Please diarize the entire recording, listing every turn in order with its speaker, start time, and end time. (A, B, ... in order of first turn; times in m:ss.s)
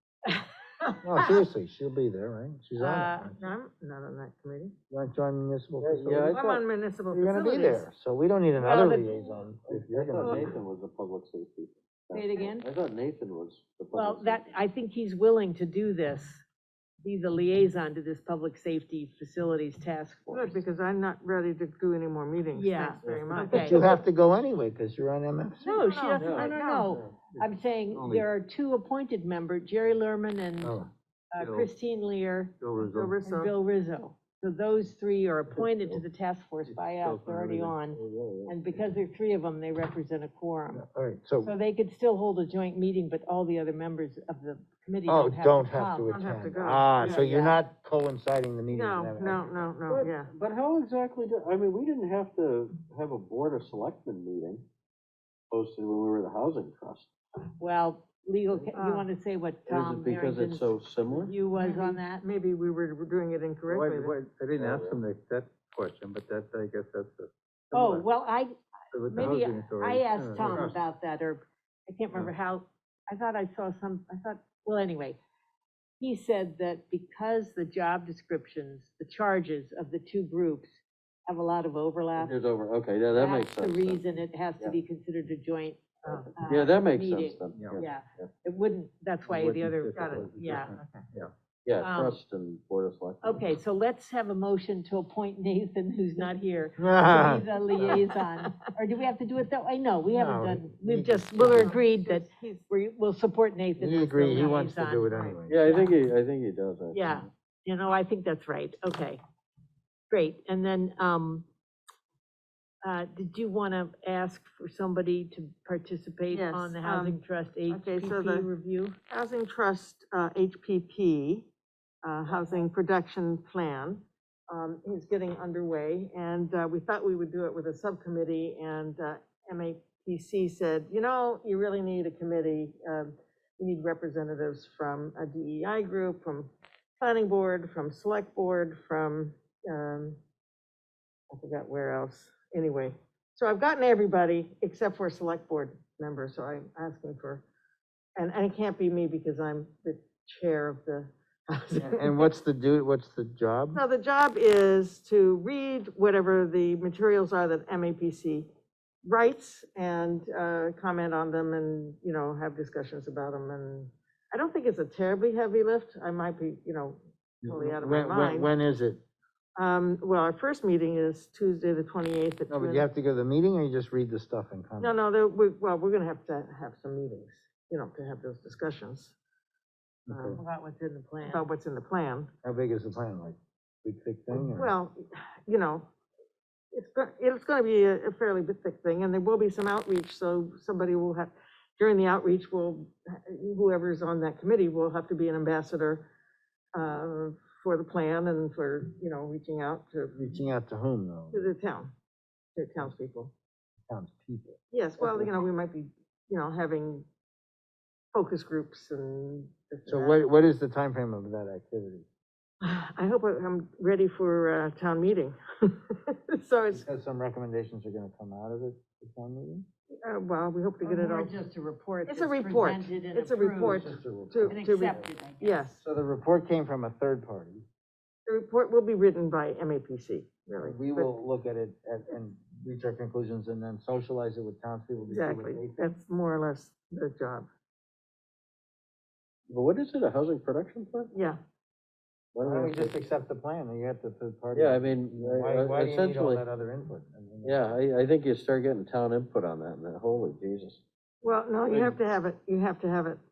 0:01.0-0:03.4 A
0:02.8-0:03.3 B
0:03.4-0:04.8 C
0:04.9-0:06.3 A
0:05.8-0:06.6 D
0:06.3-0:07.9 C
0:07.1-0:10.6 A
0:08.6-0:09.3 B
0:09.7-0:14.5 D
0:10.2-0:10.5 C
0:12.1-0:12.6 B
0:13.9-0:16.4 B
0:17.0-0:20.6 B
0:20.3-0:24.0 C
0:22.6-0:23.9 B
0:23.0-0:23.3 D
0:23.5-0:25.8 A
0:25.6-0:32.6 B
0:25.6-0:26.9 C
0:26.2-0:27.1 D
0:27.4-0:28.3 E
0:30.6-0:30.9 A
0:31.4-0:31.7 E
0:32.6-0:33.1 E
0:32.8-0:33.5 C
0:33.2-0:40.8 B
0:35.5-0:36.0 D
0:36.6-0:37.8 E
0:37.9-0:38.9 D
0:40.7-0:41.5 A
0:41.4-0:46.4 B
0:45.1-0:49.6 A
0:46.1-0:46.9 C
0:47.0-0:47.6 B
0:48.7-0:50.3 C
0:49.9-0:54.6 D
0:55.5-0:57.1 D
0:57.6-1:02.2 B
0:58.7-0:59.1 C
0:59.7-1:01.3 D
1:01.5-1:04.2 C
1:03.7-1:08.1 E
1:04.6-1:05.0 D
1:07.7-1:15.2 B
1:08.9-1:10.8 E
1:16.0-1:22.4 B
1:22.2-1:24.0 D
1:23.1-1:30.8 B
1:26.0-1:26.3 C
1:26.1-1:28.3 D
1:27.6-1:27.8 E
1:29.3-1:31.3 E
1:30.0-1:31.1 C
1:31.7-1:33.5 D
1:31.8-1:32.2 B
1:33.2-1:45.1 B
1:36.8-1:38.0 A
1:37.6-1:38.5 C
1:40.1-1:41.7 A
1:41.4-1:42.7 C
1:43.8-1:45.6 A
1:45.1-1:45.4 C
1:45.5-1:47.3 D
1:45.7-1:45.9 B
1:46.9-1:49.2 B
1:50.1-1:51.5 B
1:52.8-1:59.0 B
1:56.3-1:58.5 C
1:59.1-2:01.5 C
2:02.0-2:20.2 C
2:02.3-2:02.7 B
2:21.3-2:27.4 C
2:28.2-2:32.3 C
2:31.8-2:33.8 A
2:33.7-2:38.5 C
2:39.0-2:48.5 C
2:47.4-2:49.0 A
2:49.6-2:52.9 C
2:52.5-2:55.0 A
2:54.8-2:59.2 C
3:00.1-3:00.4 A
3:00.1-3:00.4 C
3:00.3-3:01.5 B
3:01.2-3:02.3 C
3:02.4-3:04.7 A
3:04.3-3:05.9 C
3:06.7-3:16.1 C
3:16.8-3:20.3 C
3:20.2-3:21.5 A
3:21.3-3:21.9 C
3:22.6-3:23.3 C
3:23.9-3:25.3 A
3:24.7-3:27.1 C
3:28.1-3:30.2 C
3:29.9-3:32.1 A
3:32.6-3:36.9 C
3:36.7-3:39.7 A
3:40.0-3:41.3 C
3:40.8-3:45.7 B
3:42.1-3:45.8 C
3:43.7-3:45.1 A
3:45.8-3:47.6 A
3:48.3-3:51.1 C
3:50.6-3:56.0 A
3:55.1-3:57.5 C
3:59.5-4:01.1 D
4:01.1-4:01.4 C
4:02.4-4:03.0 D
4:02.4-4:07.8 A
4:04.5-4:06.4 D
4:07.4-4:10.8 D
4:11.2-4:13.2 C
4:11.7-4:12.0 D